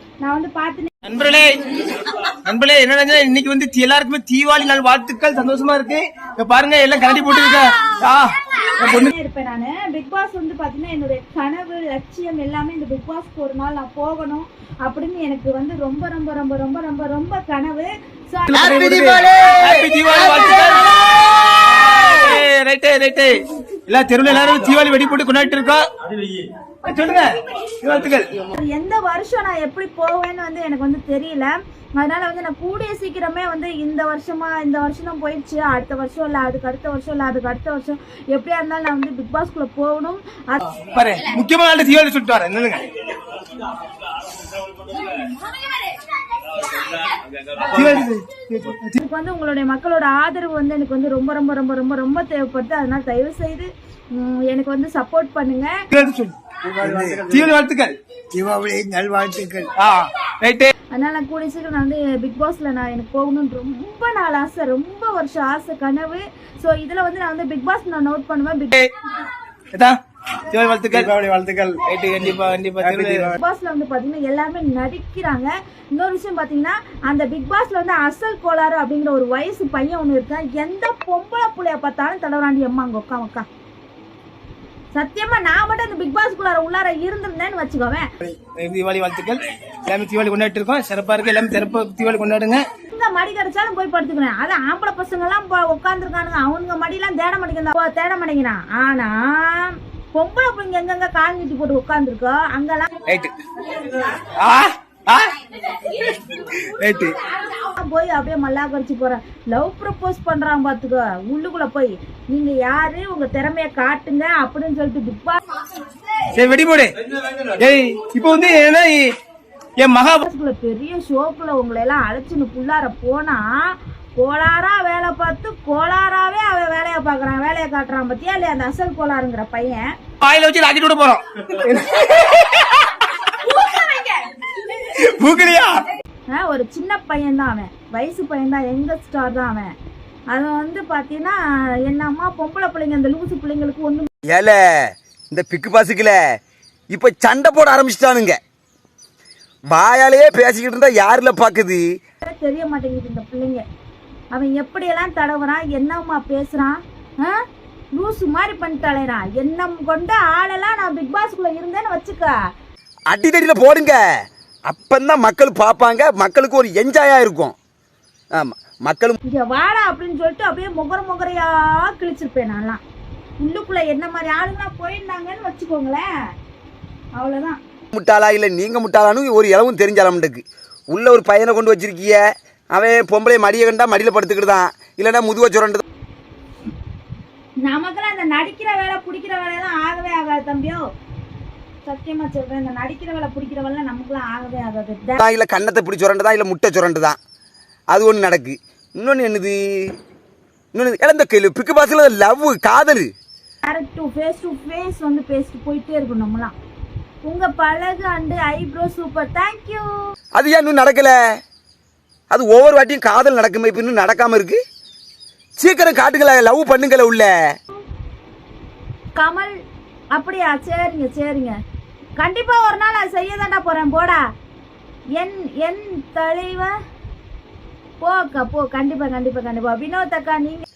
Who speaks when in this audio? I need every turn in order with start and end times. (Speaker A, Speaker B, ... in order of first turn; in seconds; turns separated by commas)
Speaker A: 0.2-0.9, Speaker B: 1.0-9.1, Speaker A: 8.9-19.1, Speaker B: 18.5-25.9, Speaker B: 26.8-28.4, Speaker A: 28.5-40.6, Speaker B: 40.7-42.9, Speaker B: 47.5-49.0, Speaker A: 49.0-55.8, Speaker B: 55.9-56.3, Speaker C: 56.7-57.5, Speaker B: 57.2-57.9, Speaker C: 58.3-59.7, Speaker B: 59.7-60.7, Speaker A: 60.9-68.8, Speaker B: 69.7-71.2, Speaker C: 70.9-71.8, Speaker B: 71.8-73.3, Speaker C: 72.8-73.4, Speaker A: 73.4-83.5, Speaker A: 84.9-88.0, Speaker B: 88.2-92.6, Speaker A: 92.9-102.9, Speaker B: 103.1-103.3, Speaker B: 104.3-105.3, Speaker B: 106.3-107.2, Speaker A: 107.5-115.4, Speaker B: 116.3-116.9, Speaker B: 117.6-119.1, Speaker B: 119.8-120.2, Speaker A: 120.2-129.9, Speaker B: 130.2-132.9, Speaker B: 134.8-135.8, Speaker A: 136.3-139.7, Speaker A: 140.3-144.1, Speaker D: 144.3-146.2, Speaker D: 146.9-148.4, Speaker D: 149.7-151.8, Speaker A: 152.2-153.6, Speaker A: 154.3-157.4, Speaker A: 157.9-162.3, Speaker D: 163.1-164.0, Speaker D: 164.7-167.6, Speaker D: 168.3-169.2, Speaker A: 169.3-172.8, Speaker A: 173.4-176.0, Speaker A: 177.2-177.6, Speaker D: 177.9-182.2, Speaker D: 182.7-185.8, Speaker A: 187.6-190.8, Speaker A: 191.8-195.2, Speaker D: 195.2-197.2, Speaker D: 197.9-199.9, Speaker D: 200.7-203.1, Speaker A: 203.6-206.5, Speaker A: 207.2-209.9, Speaker D: 210.3-211.1, Speaker D: 212.3-214.6, Speaker D: 215.6-217.3, Speaker A: 219.2-219.5, Speaker A: 220.1-221.5, Speaker A: 222.2-224.2, Speaker A: 225.2-226.7, Speaker A: 228.0-230.6